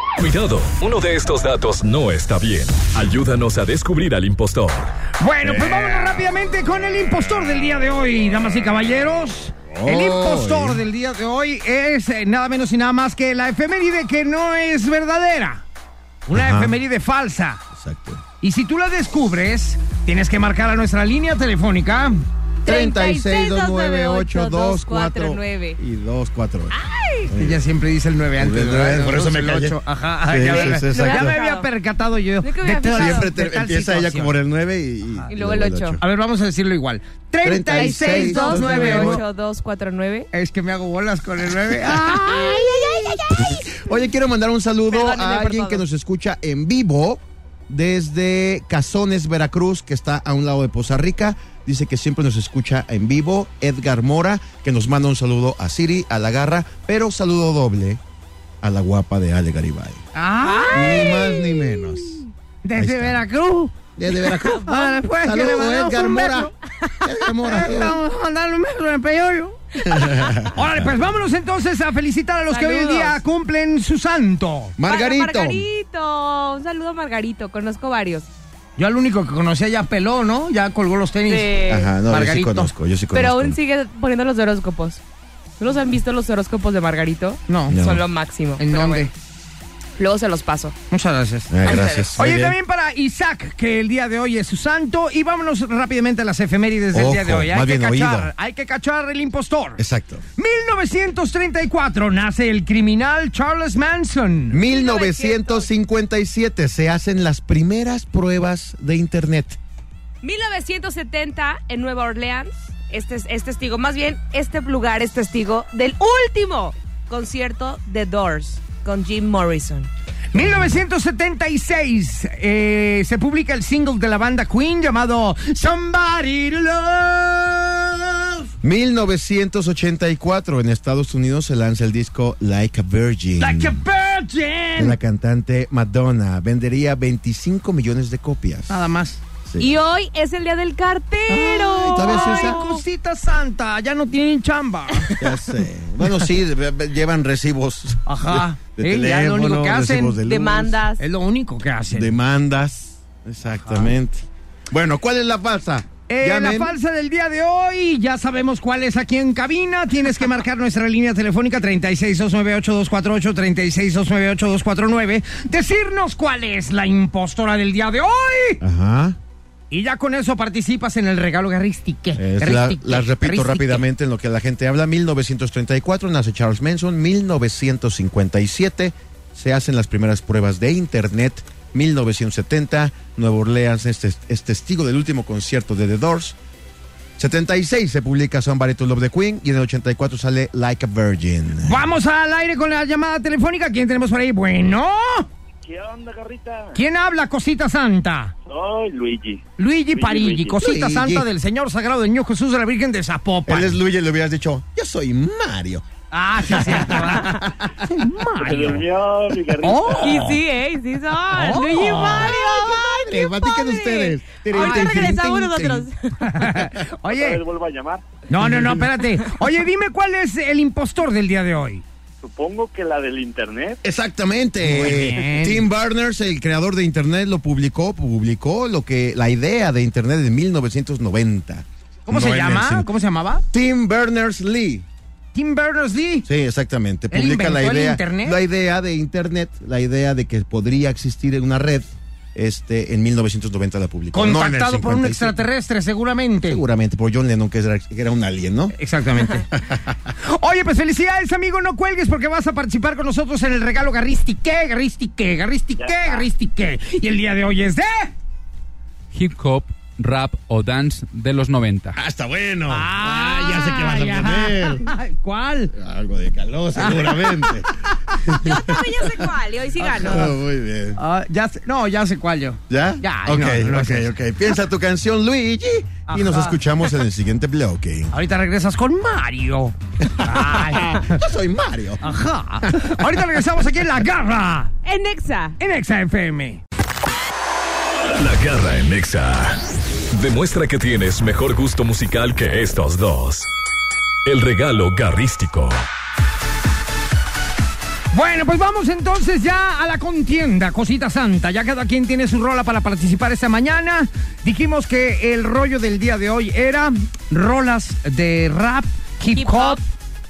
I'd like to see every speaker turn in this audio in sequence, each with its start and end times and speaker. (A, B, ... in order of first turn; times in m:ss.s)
0:00.2-0:04.9 A
0:05.2-0:15.6 B
0:05.4-0:06.3 C
0:09.7-0:10.8 C
0:16.3-0:17.6 B
0:16.4-0:16.8 C
0:17.7-0:18.2 C
0:18.4-0:22.2 B
0:22.6-0:25.8 D
0:22.6-0:27.6 C
0:26.7-0:27.3 D
0:27.3-0:34.4 B
0:28.4-0:31.4 C
0:30.5-0:31.7 D
0:32.4-0:33.3 D
0:32.9-0:36.0 C
0:35.3-0:36.0 D
0:36.0-0:39.2 B
0:37.4-0:39.2 C
0:37.7-0:40.3 D
0:40.3-0:43.2 B
0:42.0-0:43.8 D
0:43.4-0:58.0 C
0:44.9-0:45.8 D
0:58.6-1:00.0 C
1:00.1-1:01.5 B
1:00.4-1:01.3 D
1:00.7-1:02.2 C
1:02.6-1:03.8 B
1:02.8-1:03.2 C
1:04.0-1:08.0 C
1:04.3-1:05.0 D
1:04.5-1:14.8 B
1:09.8-1:11.0 C
1:12.5-1:13.2 D
1:14.8-1:15.7 C
1:14.9-1:18.3 D
1:18.8-1:21.6 B
1:21.3-1:21.9 D
1:21.7-1:23.6 C
1:22.1-1:22.7 B
1:23.1-1:25.0 D
1:25.6-1:29.1 D
1:27.5-1:27.8 B
1:27.7-1:28.0 C
1:28.6-1:29.1 B
1:30.0-1:30.8 D
1:30.9-1:31.5 B
1:31.5-1:32.6 C
1:31.6-1:32.1 D
1:32.2-1:39.8 B
1:36.9-1:38.3 C
1:39.8-1:40.2 C
1:40.4-1:44.6 B
1:44.5-1:49.6 C
1:44.6-1:45.7 D
1:50.2-1:59.9 D
2:00.3-2:08.5 B
2:08.6-2:13.8 C
2:13.4-2:15.0 B
2:14.8-2:18.8 C
2:18.7-2:19.2 B
2:19.5-2:19.7 C
2:19.6-2:22.8 D
2:21.3-2:25.3 B
2:21.6-2:22.6 C
2:25.2-2:30.8 C
2:28.1-2:30.2 B
2:30.2-2:31.0 D
2:31.0-2:32.1 B
2:31.9-2:36.8 C
2:33.5-2:33.9 B
2:36.1-2:48.6 B
2:48.6-2:49.2 C
2:49.7-2:53.8 B
2:52.2-3:06.4 C
3:07.2-3:11.8 C
3:11.6-3:15.3 B
3:15.6-3:16.8 E
3:16.8-3:18.3 B
3:18.4-3:20.7 E
3:19.6-3:23.8 B
3:20.6-3:21.3 C
3:23.5-3:25.8 C
3:26.1-3:28.8 B
3:26.4-3:27.7 C
3:28.4-3:30.2 E
3:29.6-3:30.4 B
3:30.0-3:36.2 D
3:30.1-3:30.4 C
3:31.3-3:32.7 B
3:32.0-3:35.9 C
3:34.5-3:35.2 B
3:36.2-3:37.4 B
3:37.1-3:38.0 E
3:38.3-3:41.8 B
3:38.4-3:38.8 C
3:42.2-3:43.8 E
3:43.8-3:52.9 C
3:44.6-3:45.7 B
3:52.1-3:53.4 B
3:53.5-3:54.8 C
3:55.4-3:56.3 B
3:56.2-4:05.4 C
3:57.1-3:58.4 B
4:04.1-4:06.6 B
4:06.5-4:08.8 C
4:08.8-4:09.5 B
4:09.6-4:10.0 C
4:10.3-4:18.1 B
4:15.8-4:16.2 E
4:19.1-4:22.0 F
4:22.0-4:24.9 C
4:22.7-4:25.7 B
4:25.8-4:27.7 C
4:26.8-4:28.8 B
4:28.2-4:28.8 C
4:28.4-4:30.3 D
4:29.8-4:30.3 B
4:29.9-4:31.0 C
4:31.0-4:34.1 B
4:32.7-4:38.2 C
4:36.1-4:36.6 B
4:38.1-4:41.2 B
4:40.0-4:42.1 C
4:42.0-4:44.7 B
4:42.6-4:43.2 C
4:44.8-4:45.6 D
4:45.6-4:46.6 B
4:48.2-4:53.5 A
4:54.2-4:55.8 A
4:58.1-5:09.8 B
5:09.4-5:09.8 D